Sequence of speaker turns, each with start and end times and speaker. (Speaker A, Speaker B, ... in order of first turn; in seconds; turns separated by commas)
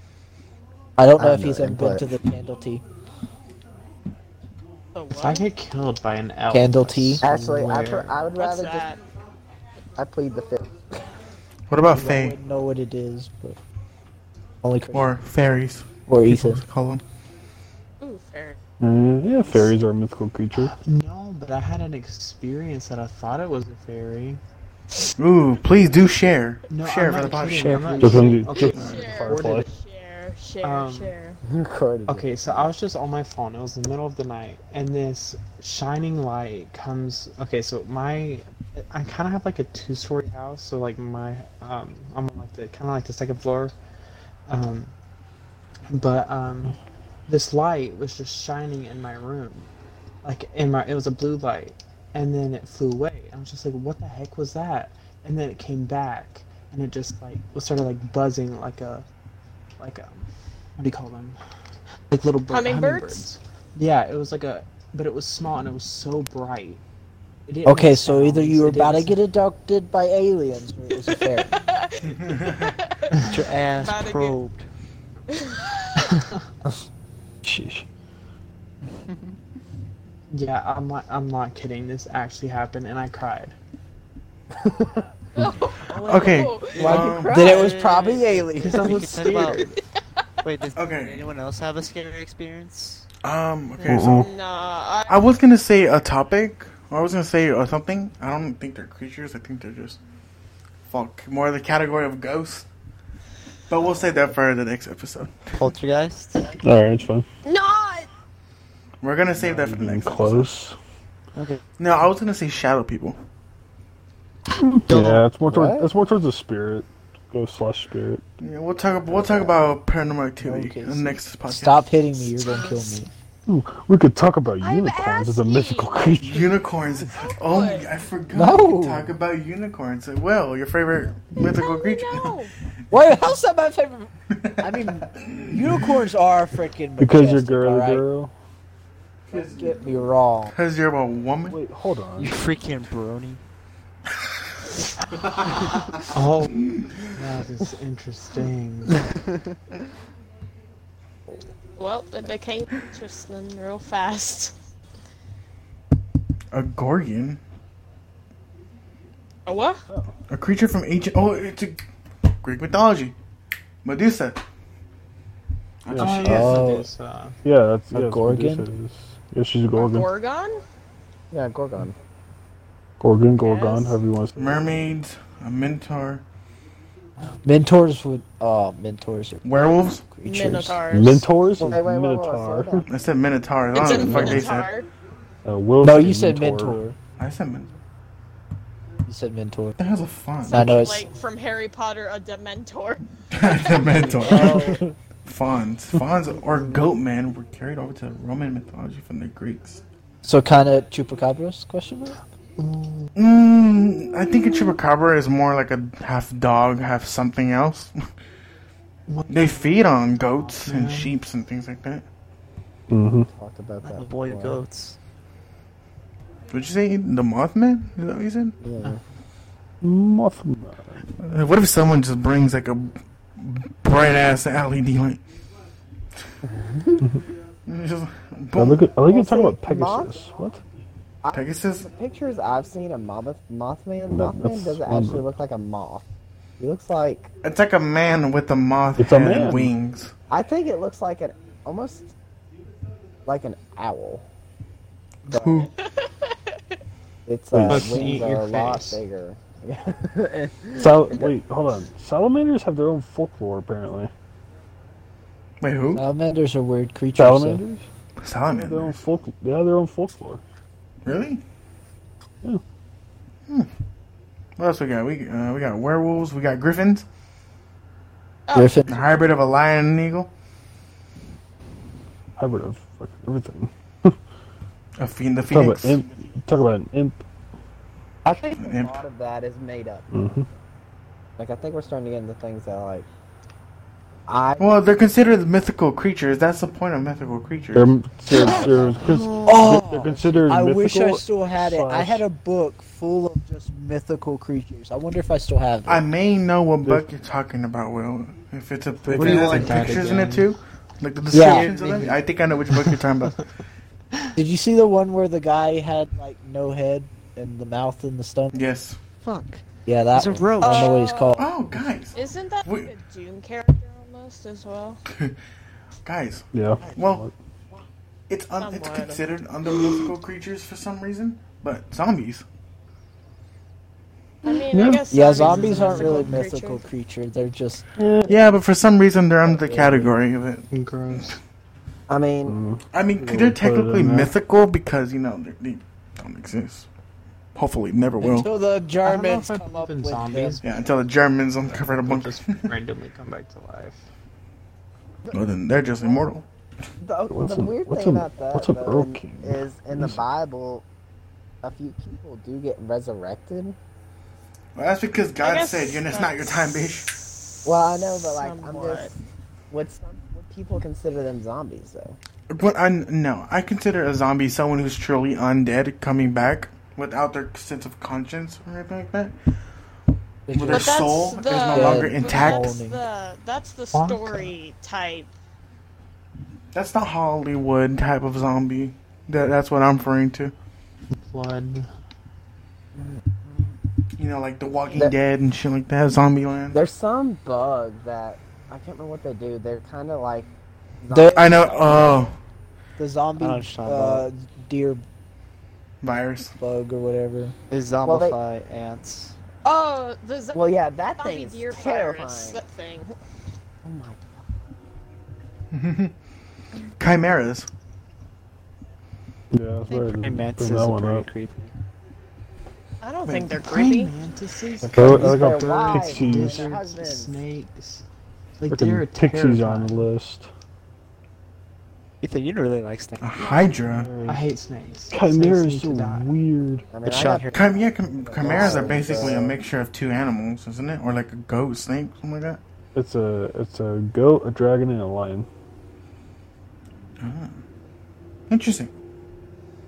Speaker A: 1.0-2.8, Speaker B: 1.2-2.1, Speaker C: 4.9-5.5, Speaker D: 5.2-8.3, Speaker A: 6.5-7.2, Speaker B: 7.2-8.9, Speaker C: 8.3-9.0, Speaker B: 10.0-11.0, Speaker E: 11.7-12.4, Speaker A: 11.9-13.6, Speaker A: 14.6-15.2, Speaker E: 14.9-17.0, Speaker A: 16.1-16.6, Speaker C: 18.0-18.6, Speaker F: 18.8-20.7, Speaker D: 20.6-24.4, Speaker E: 25.2-27.8, Speaker D: 26.7-29.7, Speaker G: 27.1-28.4, Speaker F: 28.0-29.6, Speaker C: 28.5-31.4, Speaker E: 28.7-29.0, Speaker D: 30.6-31.1, Speaker B: 31.4-32.7, Speaker D: 32.1-43.7, Speaker D: 44.5-44.9, Speaker D: 45.9-49.7, Speaker D: 50.2-59.0, Speaker D: 59.8-61.4, Speaker D: 62.1-66.8, Speaker C: 62.5-63.3, Speaker D: 67.5-69.2, Speaker A: 67.7-71.5, Speaker C: 71.0-74.4, Speaker E: 72.0-72.8, Speaker G: 73.2-74.7, Speaker C: 75.3-76.2, Speaker D: 76.1-76.4, Speaker F: 77.4-77.8, Speaker D: 80.3-83.5, Speaker C: 85.3-87.0, Speaker E: 85.9-87.5, Speaker G: 86.8-89.7, Speaker B: 86.8-88.8, Speaker A: 87.0-88.4, Speaker D: 88.6-89.8, Speaker G: 90.4-93.0, Speaker E: 90.7-91.3, Speaker E: 93.2-94.3, Speaker C: 93.8-95.2, Speaker F: 93.9-94.3, Speaker E: 95.1-100.0, Speaker E: 100.9-102.7, Speaker E: 103.7-105.3, Speaker G: 105.5-106.5, Speaker F: 106.6-107.3, Speaker C: 107.4-108.1, Speaker E: 109.0-110.5, Speaker F: 109.3-110.8, Speaker G: 111.3-111.6, Speaker E: 111.8-113.2, Speaker F: 114.5-118.2, Speaker G: 114.9-115.2, Speaker B: 115.4-115.9, Speaker E: 118.4-121.9, Speaker F: 119.1-119.5, Speaker A: 120.4-123.1, Speaker C: 122.3-123.0, Speaker F: 123.5-126.5, Speaker C: 124.6-126.2, Speaker E: 126.2-132.4, Speaker C: 127.1-127.9, Speaker A: 128.3-129.1, Speaker C: 131.4-132.5, Speaker A: 132.9-138.1, Speaker E: 134.4-136.0, Speaker F: 137.0-138.3, Speaker E: 139.3-139.8, Speaker A: 139.3-140.5, Speaker E: 140.5-141.6, Speaker F: 141.5-142.3, Speaker G: 142.2-143.4, Speaker D: 145.2-149.1, Speaker E: 146.6-147.1, Speaker G: 149.2-149.5, Speaker C: 151.8-154.5, Speaker E: 156.5-157.4, Speaker C: 159.4-159.8, Speaker F: 159.9-160.1, Speaker E: 160.3-161.8, Speaker E: 162.4-163.1, Speaker E: 163.8-164.4, Speaker E: 165.8-166.7, Speaker F: 165.9-166.4, Speaker D: 166.0-167.4, Speaker A: 166.2-166.9, Speaker F: 167.4-170.1, Speaker A: 167.9-168.7, Speaker C: 169.7-170.6, Speaker B: 171.3-171.9, Speaker F: 173.0-174.9, Speaker C: 173.4-174.0, Speaker E: 174.3-176.2, Speaker A: 177.4-180.8, Speaker E: 179.4-180.0, Speaker C: 180.2-181.3, Speaker F: 180.9-182.8, Speaker B: 181.6-182.9, Speaker E: 182.9-184.7, Speaker C: 183.7-184.9, Speaker F: 183.9-184.5, Speaker F: 185.4-186.9, Speaker A: 185.8-186.8, Speaker E: 187.2-187.7, Speaker A: 189.1-189.8, Speaker E: 189.8-190.9, Speaker A: 190.4-191.1, Speaker C: 190.5-194.3, Speaker E: 193.3-199.8, Speaker B: 194.2-194.8, Speaker A: 194.3-194.6, Speaker F: 194.3-194.9, Speaker A: 200.2-202.2, Speaker D: 202.6-203.1, Speaker E: 203.2-208.1, Speaker D: 209.1-211.1, Speaker E: 209.3-212.1, Speaker F: 212.9-213.3, Speaker B: 213.3-214.6, Speaker G: 213.8-215.0, Speaker E: 216.5-218.6, Speaker B: 218.6-219.0, Speaker F: 219.8-221.1, Speaker E: 221.2-225.2, Speaker B: 226.4-227.0, Speaker E: 227.7-228.9, Speaker F: 228.6-230.6, Speaker B: 229.1-230.2, Speaker B: 231.2-236.0, Speaker E: 231.3-231.8, Speaker F: 234.1-235.2, Speaker B: 236.6-237.3, Speaker E: 237.4-240.1, Speaker F: 239.0-239.7, Speaker B: 240.3-242.1, Speaker B: 243.2-244.2, Speaker B: 245.3-245.7, Speaker E: 245.3-245.7, Speaker C: 245.8-246.6, Speaker B: 247.2-251.3, Speaker F: 247.5-248.2, Speaker D: 247.7-249.0, Speaker A: 247.8-248.2, Speaker F: 250.8-254.1, Speaker E: 255.6-256.0, Speaker A: 255.9-257.6, Speaker F: 257.1-257.8, Speaker E: 258.2-259.0, Speaker F: 258.5-260.4, Speaker E: 261.0-261.4, Speaker E: 264.6-267.1, Speaker C: 268.5-268.9, Speaker A: 268.5-269.1, Speaker E: 268.9-270.3, Speaker F: 272.4-274.2, Speaker E: 275.0-276.2, Speaker F: 275.5-277.2, Speaker B: 278.5-280.1, Speaker E: 278.6-279.0, Speaker F: 280.1-280.5, Speaker B: 281.4-283.1, Speaker B: 284.3-284.9, Speaker E: 284.6-287.9, Speaker F: 287.7-292.2, Speaker B: 288.4-289.0, Speaker C: 289.0-289.7, Speaker A: 289.4-296.0, Speaker E: 295.9-303.4, Speaker F: 299.1-300.1, Speaker D: 299.1-300.5, Speaker A: 301.3-301.7, Speaker D: 301.4-303.3, Speaker A: 304.4-308.6, Speaker E: 308.5-309.0, Speaker G: 309.2-311.0, Speaker A: 309.8-311.5, Speaker C: 310.6-311.4, Speaker E: 311.4-312.9, Speaker C: 312.1-315.0, Speaker E: 315.1-315.4, Speaker E: 316.0-317.2, Speaker F: 316.5-317.3, Speaker E: 318.3-322.4, Speaker C: 318.6-319.2, Speaker C: 324.4-326.9, Speaker F: 324.5-325.0, Speaker A: 325.1-327.8, Speaker D: 325.3-326.4, Speaker F: 328.0-328.4, Speaker E: 328.3-331.3, Speaker A: 329.5-330.1, Speaker D: 330.7-331.4, Speaker B: 332.1-332.6, Speaker F: 332.4-334.3, Speaker E: 332.9-336.9, Speaker E: 337.5-338.5, Speaker A: 338.2-340.6, Speaker D: 339.0-340.8, Speaker E: 340.6-342.7, Speaker D: 341.7-344.0, Speaker E: 345.3-346.4, Speaker B: 347.0-350.9, Speaker F: 347.3-350.2, Speaker B: 351.6-353.8, Speaker E: 354.7-357.1, Speaker C: 355.4-359.1, Speaker B: 357.6-359.2, Speaker B: 359.7-362.2, Speaker E: 362.5-369.4, Speaker A: 370.5-371.1, Speaker E: 370.5-372.8, Speaker C: 370.7-375.3, Speaker A: 371.6-373.0, Speaker D: 373.9-374.5, Speaker E: 376.7-380.5, Speaker D: 381.1-381.9, Speaker E: 384.2-386.8, Speaker B: 386.7-390.5, Speaker B: 391.0-392.3, Speaker A: 391.1-391.5, Speaker E: 391.3-392.3, Speaker A: 393.0-395.0, Speaker G: 393.4-394.3, Speaker E: 396.0-396.5, Speaker A: 396.6-397.5, Speaker G: 397.7-399.4, Speaker B: 398.0-398.4, Speaker C: 399.6-400.6, Speaker B: 400.5-402.6, Speaker C: 401.1-403.1, Speaker B: 403.8-404.5, Speaker E: 405.7-406.1, Speaker E: 407.0-407.7, Speaker F: 409.5-411.3, Speaker G: 409.9-411.7, Speaker C: 413.0-414.1, Speaker E: 413.2-413.5, Speaker D: 413.6-418.0, Speaker F: 414.8-416.7, Speaker B: 415.0-417.3, Speaker D: 418.6-420.0, Speaker F: 418.7-420.5, Speaker G: 422.2-423.6, Speaker E: 423.2-424.1, Speaker F: 423.8-424.4, Speaker D: 424.2-426.3, Speaker F: 425.1-426.9, Speaker B: 426.9-429.5, Speaker G: 427.0-427.7, Speaker E: 427.5-432.6, Speaker F: 428.5-429.6, Speaker F: 432.9-435.5, Speaker E: 437.2-437.6, Speaker E: 438.5-438.9